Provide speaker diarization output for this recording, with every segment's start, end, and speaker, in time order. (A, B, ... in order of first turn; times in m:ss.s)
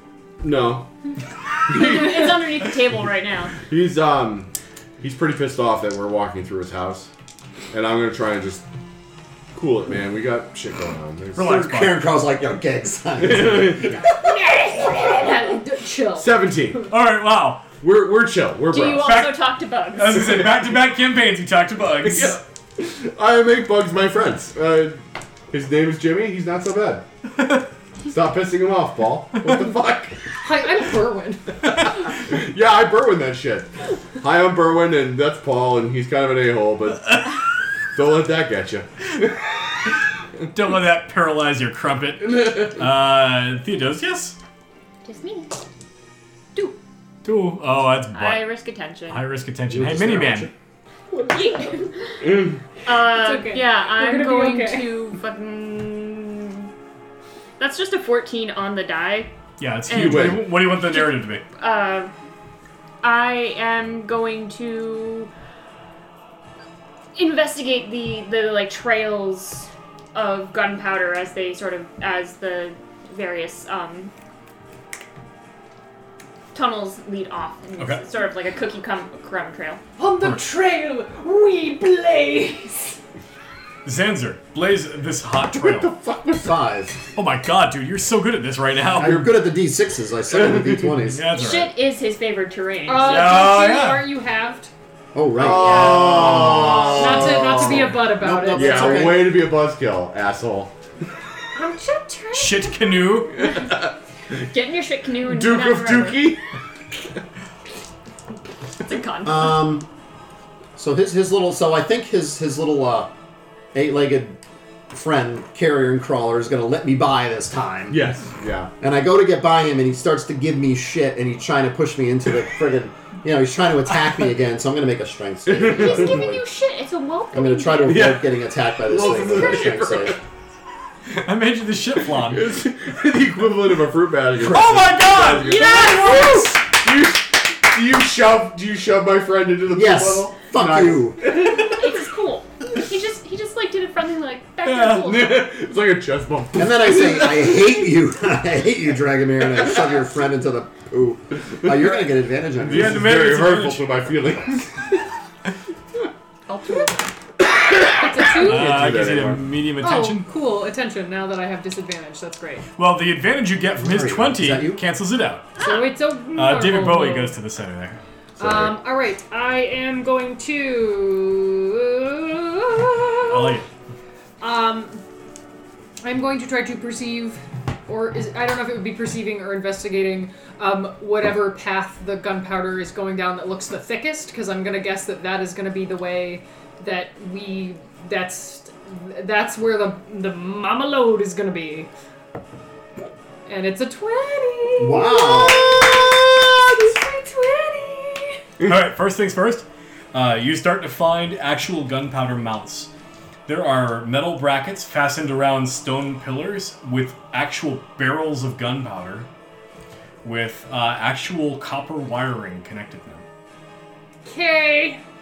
0:00.4-0:00.9 A
0:01.7-0:02.4 A
0:01.7-0:03.6 B
0:03.6-0:07.1 A
0:07.7-0:08.6 A
0:09.5-0:11.5 A
0:11.3-0:12.0 C
0:11.4-0:14.1 D
0:13.2-0:14.0 A
0:14.2-0:16.3 E
0:16.2-0:16.9 A
0:16.8-0:17.7 C
0:17.8-0:19.2 A
0:18.7-0:20.2 B
0:18.9-0:19.4 C
0:19.9-0:22.4 C
0:20.3-0:20.7 A
0:22.0-0:25.0 A
0:25.5-0:27.0 A
0:28.0-0:30.2 A
0:30.4-0:31.4 E
0:31.7-0:37.3 A
0:37.9-0:39.4 A
0:40.5-0:44.4 C
0:45.0-0:45.6 B
0:47.2-0:48.5 C
0:48.1-0:49.2 B
0:49.1-0:50.5 C
0:49.7-0:50.5 D
0:51.1-0:51.9 E
0:51.3-0:52.3 B
0:52.2-0:52.6 A
0:52.8-0:56.7 B
0:52.9-0:54.9 E
0:57.6-0:59.3 B
0:59.6-1:01.4 C
0:59.9-1:02.1 B
0:59.9-1:00.6 A
1:03.0-1:05.3 B
1:07.1-1:14.1 B
1:16.5-1:19.8 B
1:20.0-1:23.0 E
1:23.8-1:25.9 C
1:25.5-1:26.6 A
1:26.4-1:27.0 D
1:27.1-1:29.3 C
1:28.9-1:31.2 D
1:30.3-1:30.9 A
1:31.0-1:31.7 C
1:31.3-1:33.4 B
1:32.8-1:34.7 E
1:33.0-1:34.1 C
1:35.1-1:39.4 D
1:35.4-1:38.0 A
1:35.4-1:37.2 B
1:36.9-1:39.1 E
1:38.5-1:40.7 A
1:41.5-1:42.9 E
1:42.3-1:43.4 C
1:43.4-1:43.9 A
1:44.5-1:46.3 B
1:45.2-1:46.4 A
1:48.8-1:49.8 B
1:49.2-1:49.9 D
1:50.8-1:53.1 D
1:53.7-1:58.0 D
1:57.9-1:58.7 A
1:58.8-2:06.4 D
2:05.5-2:06.2 A
2:05.6-2:08.1 B
2:07.3-2:10.2 D
2:07.9-2:10.2 A
2:11.1-2:12.6 C
2:12.1-2:21.6 A
2:14.4-2:16.5 C
2:15.3-2:16.4 B
2:19.7-2:21.3 D
2:21.4-2:25.5 B
2:24.6-2:25.1 C
2:25.0-2:27.5 A
2:26.5-2:33.1 D
2:32.6-2:33.9 C
2:32.6-2:34.9 A
2:36.5-2:37.0 B
2:37.5-2:39.4 A
2:37.9-2:38.8 E
2:38.4-2:40.3 C
2:39.8-2:42.6 E
2:42.8-2:45.5 C
2:43.8-2:44.8 D
2:45.6-2:47.3 E
2:45.6-2:45.8 B
2:46.3-2:48.0 C
2:48.4-2:48.7 A
2:48.4-2:53.6 E
2:53.2-2:53.7 C
2:54.4-2:55.0 E
2:56.0-3:11.9 E
3:13.4-3:18.4 E
3:14.8-3:15.9 D
3:18.6-3:22.9 C
3:23.4-3:29.3 C
3:30.2-3:33.2 C
3:34.2-3:35.0 E